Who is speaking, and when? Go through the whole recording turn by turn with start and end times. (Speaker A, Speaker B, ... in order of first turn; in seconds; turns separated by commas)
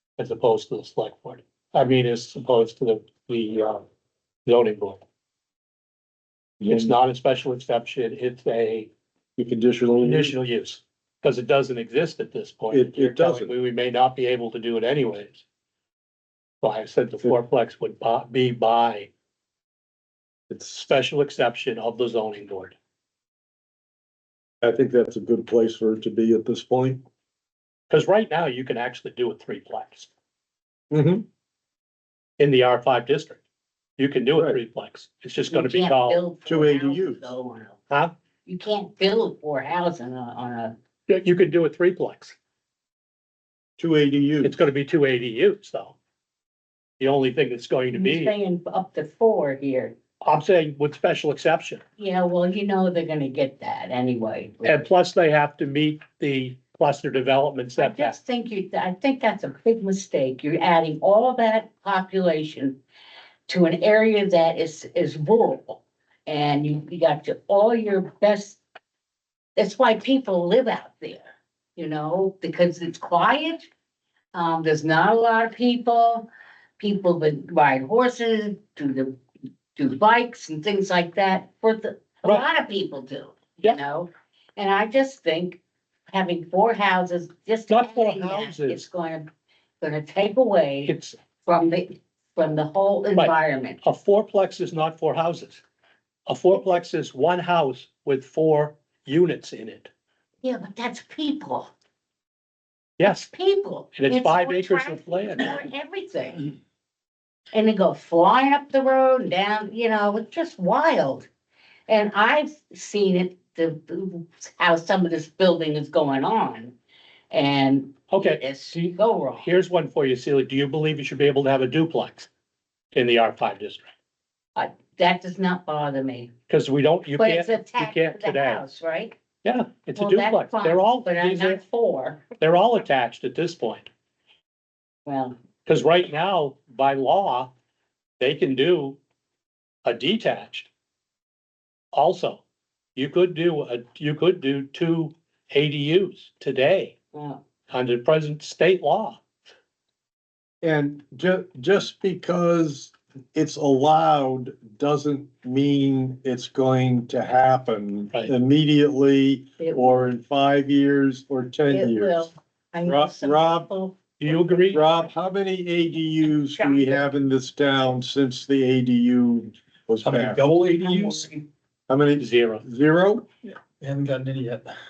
Speaker A: 0.2-3.8, Speaker A: 4.5-5.0, Speaker B: 6.6-7.0, Speaker A: 6.7-8.9, Speaker B: 9.4-10.3, Speaker A: 10.0-15.4, Speaker B: 12.7-13.5, Speaker A: 16.6-19.1, Speaker A: 20.7-22.8, Speaker B: 24.6-27.0, Speaker A: 27.9-30.1, Speaker B: 30.9-31.2, Speaker A: 32.4-33.4, Speaker A: 34.0-36.2, Speaker B: 34.3-34.6, Speaker C: 35.5-37.8, Speaker B: 36.5-37.2, Speaker C: 38.5-40.7, Speaker A: 41.1-42.4, Speaker B: 43.8-44.6, Speaker A: 44.4-46.0, Speaker A: 47.0-48.3, Speaker C: 47.9-50.0, Speaker A: 50.2-51.8, Speaker C: 52.0-54.8, Speaker A: 54.6-58.1, Speaker C: 57.8-62.8, Speaker C: 63.5-68.6, Speaker C: 69.5-73.7, Speaker C: 74.3-76.3, Speaker C: 76.8-79.2, Speaker C: 79.8-89.3, Speaker A: 87.7-88.8, Speaker C: 89.8-90.9, Speaker A: 90.9-91.2, Speaker C: 91.4-93.8, Speaker A: 93.2-95.6, Speaker A: 96.3-99.9, Speaker C: 100.4-101.7, Speaker A: 103.0-103.3, Speaker C: 103.0-106.5, Speaker A: 104.0-105.7, Speaker C: 107.5-111.3, Speaker C: 111.9-116.8, Speaker C: 117.3-119.5, Speaker A: 118.1-122.3, Speaker A: 122.9-123.9, Speaker C: 124.5-126.3, Speaker A: 126.5-128.6, Speaker C: 127.2-129.2, Speaker A: 129.4-131.6, Speaker C: 129.9-132.3, Speaker A: 132.4-133.9, Speaker C: 135.1-135.3, Speaker A: 135.7-137.5, Speaker A: 138.2-139.0, Speaker A: 139.8-140.7, Speaker A: 141.9-142.4, Speaker A: 142.9-146.9, Speaker C: 147.1-147.4, Speaker A: 147.7-149.2, Speaker B: 150.6-162.3, Speaker C: 159.6-160.1, Speaker C: 161.7-165.0, Speaker B: 162.8-163.7, Speaker A: 164.2-164.8, Speaker B: 164.7-170.5, Speaker C: 166.5-167.0, Speaker D: 170.0-171.5, Speaker C: 170.8-171.3, Speaker B: 171.9-173.2, Speaker A: 172.2-172.6, Speaker D: 173.5-174.7